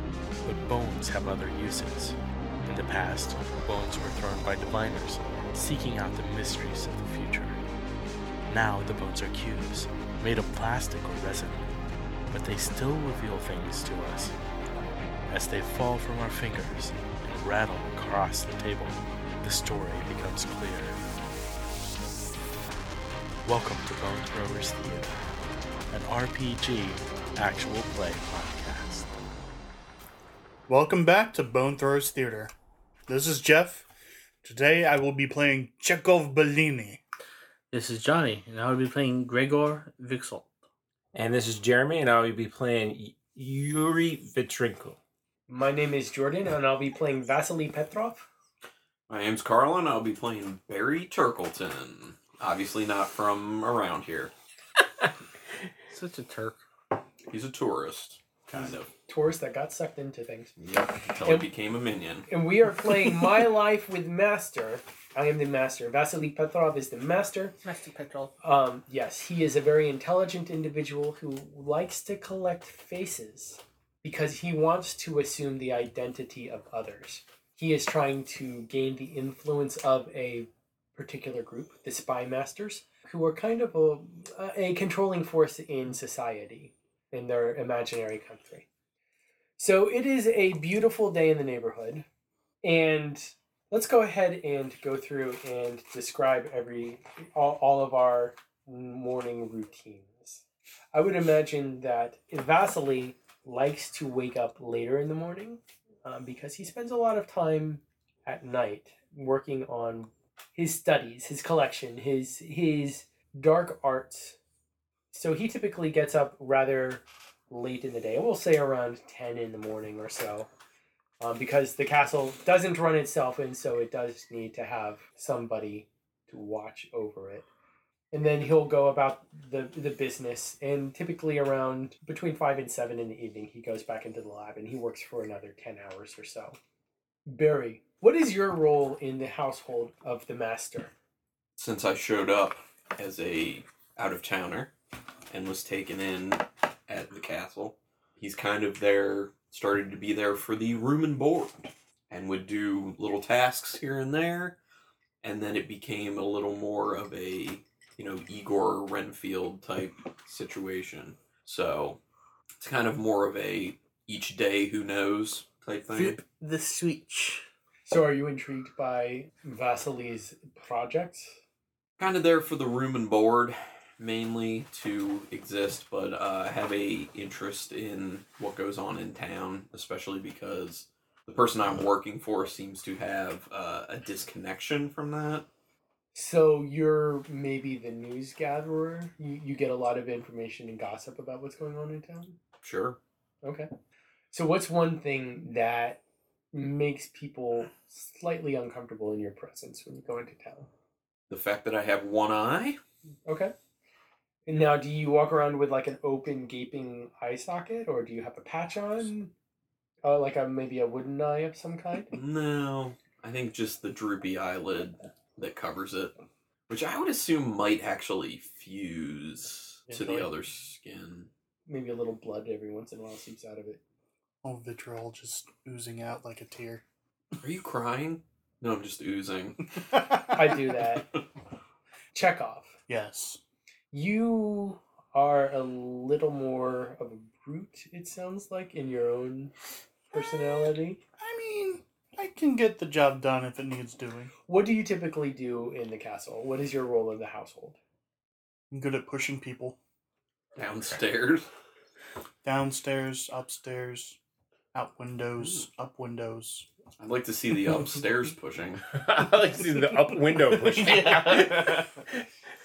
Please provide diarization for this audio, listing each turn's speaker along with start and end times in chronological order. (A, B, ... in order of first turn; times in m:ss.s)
0:00.4-0:02.2 A
0:02.7-0:07.6 A
0:08.5-0:11.6 A
0:12.3-0:14.3 A
0:15.3-0:21.0 A
0:23.4-0:25.2 A
0:25.9-0:29.1 A
0:30.7-0:32.5 B
0:33.1-0:33.9 B
0:34.4-0:37.0 B
0:37.7-0:40.5 C
0:41.1-0:45.0 D
0:45.5-0:48.3 E
0:49.1-0:54.3 F
0:55.9-0:56.6 C
0:57.3-0:58.9 F
0:58.5-1:00.5 E
1:00.6-1:02.3 F
1:02.3-1:07.5 E
1:07.6-1:08.3 C
1:08.4-1:28.7 E
1:29.6-1:32.0 E
1:32.6-1:40.4 E
1:40.9-1:54.4 E
1:55.1-2:00.5 E
2:01.2-2:07.5 E
2:08.1-2:16.6 E
2:17.3-2:20.9 E
2:21.6-2:24.7 F
2:25.3-2:34.6 F
2:35.2-2:42.0 F
2:42.6-2:46.2 F
2:45.9-2:47.4 C
2:47.9-2:51.4 E
2:52.0-3:05.5 F
3:06.2-3:12.4 E
3:12.6-3:13.0 F
3:13.4-3:13.7 E
3:14.3-3:16.0 E
3:16.5-3:20.7 E
3:21.3-3:22.8 F
3:23.2-3:23.5 E
3:24.5-3:29.3 E
3:30.0-3:32.1 E
3:32.1-3:36.2 F
3:36.7-3:41.3 F
3:39.9-3:40.2 E
3:41.7-3:43.8 E
3:44.4-3:46.8 B
3:47.4-3:49.6 F
3:50.3-3:51.1 E
3:52.1-3:52.7 E
3:52.9-3:53.4 B
3:53.9-3:59.5 E
4:00.1-4:01.0 E
4:01.2-4:04.3 B
4:04.5-4:07.8 E
4:08.7-4:09.8 B
4:10.6-4:11.5 F
4:12.4-4:14.2 B
4:14.7-4:16.7 B
4:15.4-4:15.7 F
4:17.0-4:18.8 F
4:18.9-4:22.0 D
4:20.5-4:21.9 C